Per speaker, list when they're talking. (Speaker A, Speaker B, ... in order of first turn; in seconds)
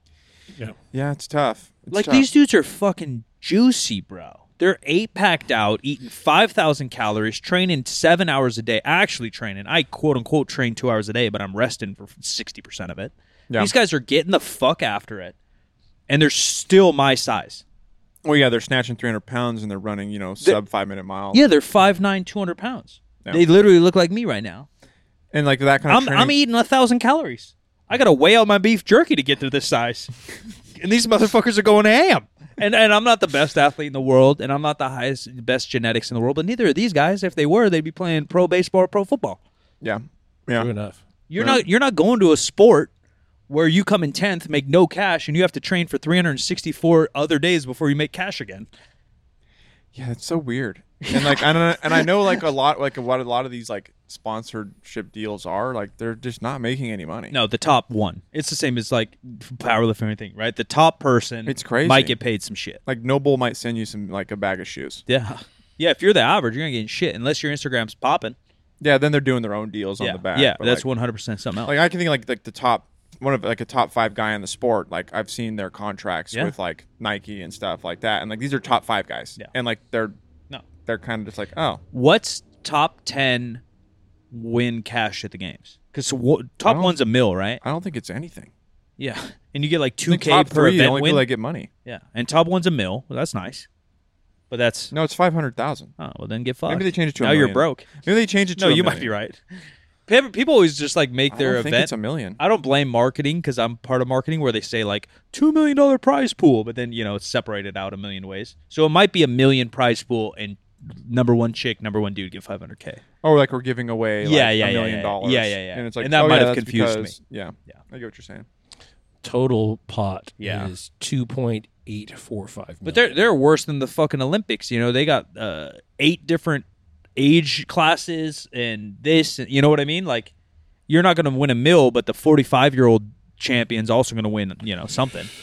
Speaker A: 0.9-2.3, 18.2-21.4, 25.3-26.3, 39.8-40.7, 41.4-41.6, 49.9-57.3, 61.5-62.2, 62.9-65.0, 68.8-70.8, 71.7-80.2, 80.8-81.8, 86.6-87.0, 87.6-88.5, 90.1-91.7, 94.9-95.9, 96.7-99.1, 101.3-102.4, 113.2-118.5
Speaker B: 1.9-15.3, 16.1-17.6, 21.3-24.7, 25.9-30.1, 30.8-39.4, 41.3-42.9, 43.5-48.7, 51.0-52.0, 57.3-62.8, 65.1-68.4, 70.0-71.8, 81.9-83.6, 84.3-87.6, 89.0-91.3, 91.8-93.7, 94.5-94.9, 96.0-97.9, 98.5-99.4, 100.1-113.0, 114.2-117.1, 120.4-120.7, 122.8-126.7, 127.2-130.3, 130.9-135.3
Speaker C: 40.5-41.0, 119.2-123.2